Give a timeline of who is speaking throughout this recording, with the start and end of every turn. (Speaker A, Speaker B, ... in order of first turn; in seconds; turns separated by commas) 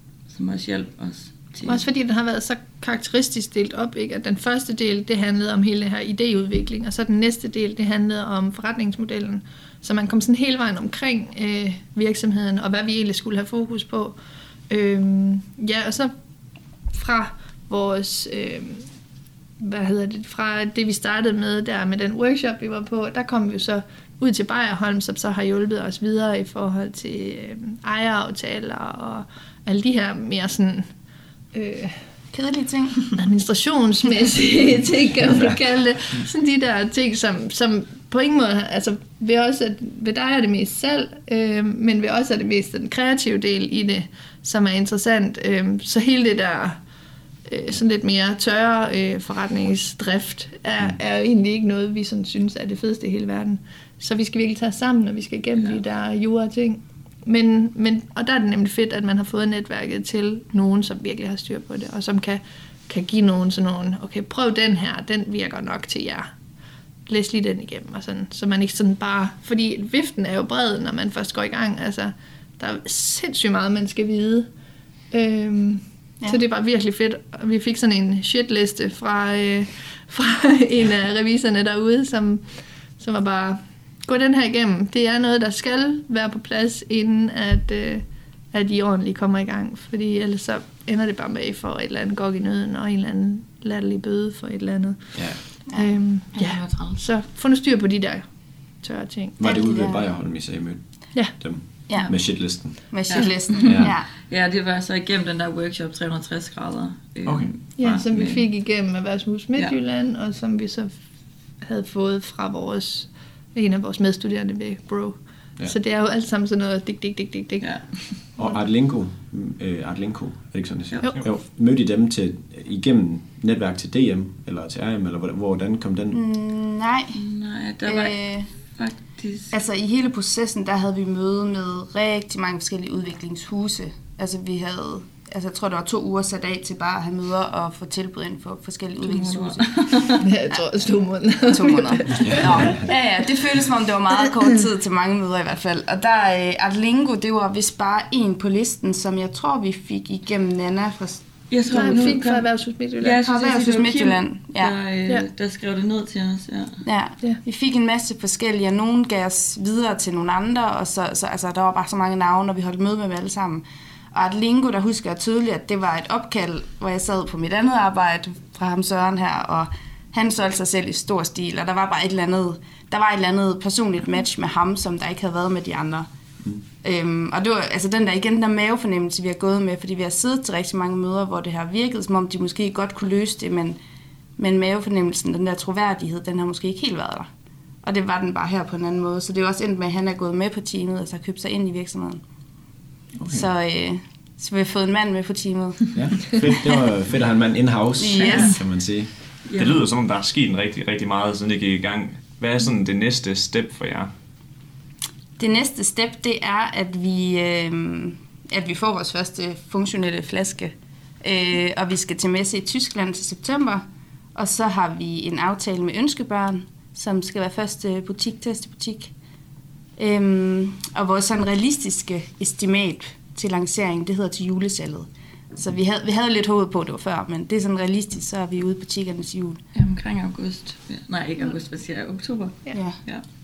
Speaker A: 0.3-1.9, Speaker B: 1.6-14.2, Speaker B: 14.7-16.1, Speaker B: 16.9-18.8, Speaker B: 19.6-30.8, Speaker B: 31.5-31.9, Speaker C: 32.3-33.0, Speaker B: 33.2-46.8, Speaker B: 47.5-66.3, Speaker B: 67.1-74.5, Speaker B: 75.1-82.4, Speaker B: 83.0-98.2, Speaker D: 95.2-95.4, Speaker A: 96.3-97.0, Speaker B: 98.8-99.4, Speaker D: 99.4-103.0, Speaker C: 99.4-100.1, Speaker B: 101.1-101.4, Speaker C: 101.9-104.1, Speaker A: 103.1-108.5, Speaker D: 103.6-104.0, Speaker D: 107.3-107.7, Speaker B: 107.7-111.0, Speaker B: 111.6-118.6, Speaker A: 117.6-118.3, Speaker D: 118.4-126.2, Speaker A: 120.9-121.3, Speaker C: 126.1-127.2, Speaker A: 127.1-129.6, Speaker C: 127.8-128.5, Speaker C: 129.5-139.8, Speaker A: 139.0-140.3, Speaker B: 140.2-142.7, Speaker C: 141.5-152.2, Speaker D: 142.2-142.8, Speaker A: 151.5-156.8, Speaker B: 151.7-153.2, Speaker C: 153.2-154.8, Speaker C: 156.8-176.1, Speaker C: 176.8-183.8, Speaker C: 184.4-187.3, Speaker C: 187.8-192.2, Speaker D: 193.2-193.5, Speaker C: 193.3-196.7, Speaker D: 195.9-199.1, Speaker C: 198.0-198.7, Speaker A: 198.2-198.6, Speaker A: 199.4-199.9, Speaker E: 199.6-204.1, Speaker C: 205.4-213.8, Speaker C: 214.3-219.1, Speaker C: 220.0-229.6, Speaker A: 229.7-233.2, Speaker C: 232.7-233.0